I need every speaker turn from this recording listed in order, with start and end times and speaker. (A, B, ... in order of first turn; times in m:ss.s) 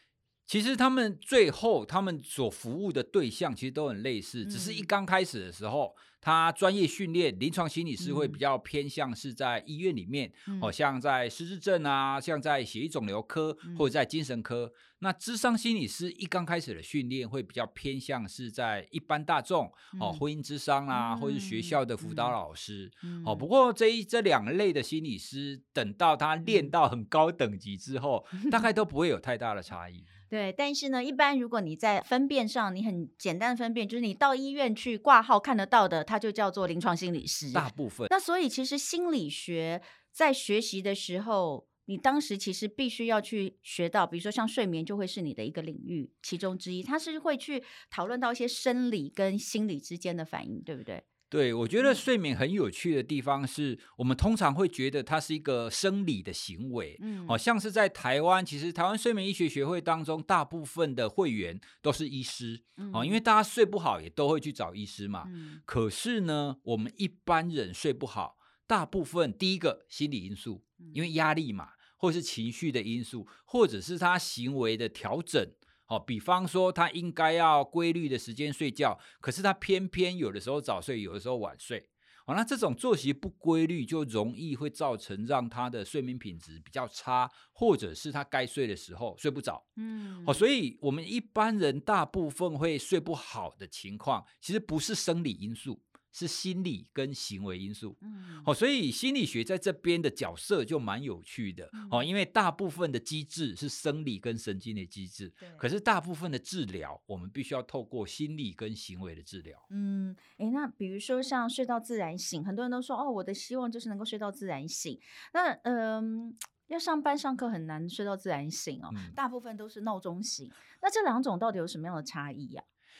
0:00.5-0:30.1 A
0:04.4-0:04.9 B
0:08.0-0:08.4 B
0:10.4-0:10.7 B
0:19.9-0:20.2 B
0:20.9-0:22.4 B
0:23.0-0:23.4 B
0:26.4-0:26.7 B
0:28.4-0:28.7 B
0:30.3-0:51.0 B
0:37.5-0:38.1 A
0:51.3-1:29.6 A
0:57.0-0:57.4 B
1:02.8-1:03.2 B
1:05.2-1:05.6 B
1:29.8-1:30.4 B
1:30.2-1:49.6 A
1:38.0-1:38.5 B
1:41.7-1:42.1 B
1:49.7-2:02.6 B
1:58.9-1:59.2 A